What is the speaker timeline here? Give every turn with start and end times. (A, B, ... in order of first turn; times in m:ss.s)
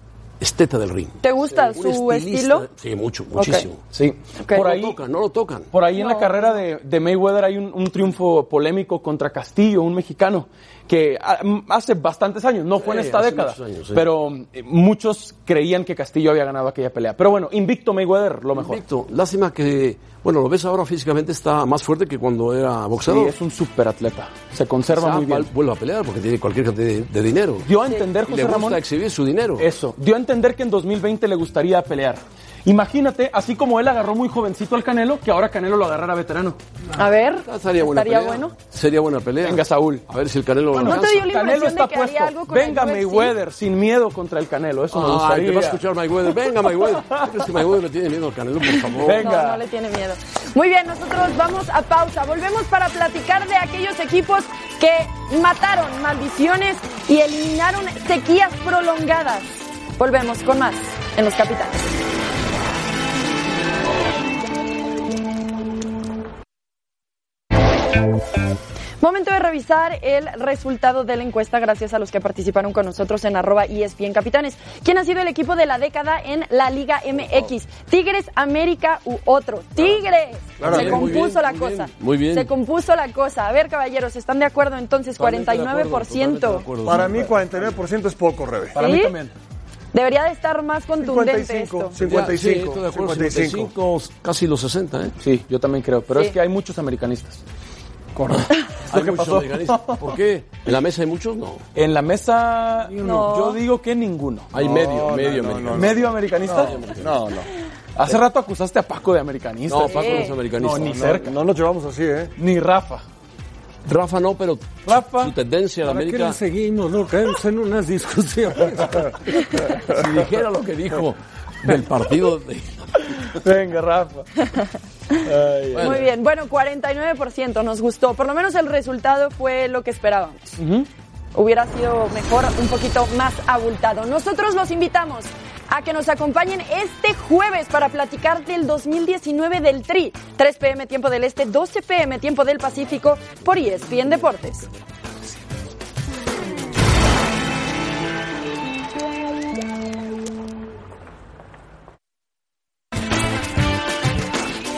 0:00.4-0:03.8 A
0:01.2-0:02.7 B
0:03.4-0:03.7 B
0:03.9-0:05.0 C
0:04.5-0:05.7 A
0:05.7-0:18.8 C
0:05.9-0:06.6 B
0:12.8-0:14.1 A
0:18.5-0:23.3 A
0:23.0-0:25.5 C
0:24.9-0:27.7 A
0:27.6-0:28.8 C
0:28.2-0:29.7 A
0:29.6-0:36.6 C
0:37.0-0:38.5 B
0:37.3-0:41.3 A
0:39.4-0:40.0 C
0:40.7-0:45.8 C
0:40.8-0:43.3 B
0:44.9-0:49.3 A
0:46.8-0:47.3 C
0:49.0-0:49.6 C
0:49.1-1:01.9 B
1:09.0-1:26.6 B
1:20.6-1:21.2 D
1:20.6-1:22.5 A
1:25.2-1:27.3 A
1:26.8-1:28.8 D
1:27.0-1:27.2 C
1:28.7-1:29.3 C
1:28.8-1:29.1 B
1:29.9-1:31.9 B
1:31.0-1:33.7 D
1:32.0-1:35.1 A
1:35.2-1:37.4 C
1:38.3-1:41.6 A
1:38.8-1:40.1 C
1:41.7-1:44.5 C
1:42.9-1:43.6 B
1:44.5-1:47.2 A
1:44.5-1:47.5 D
1:45.7-1:46.8 C
1:48.0-1:51.4 C
1:49.7-1:51.2 A
1:49.8-1:50.3 B
1:50.8-1:52.3 D
1:52.4-1:53.0 C
1:53.8-1:56.4 A
1:54.8-1:55.3 C
1:55.9-1:59.2 E
1:59.8-2:03.0 A
2:03.0-2:04.3 C
2:05.2-2:06.0 C
2:05.7-2:06.0 A
2:05.8-2:10.6 B
2:10.6-2:10.9 C
2:11.3-2:24.7 B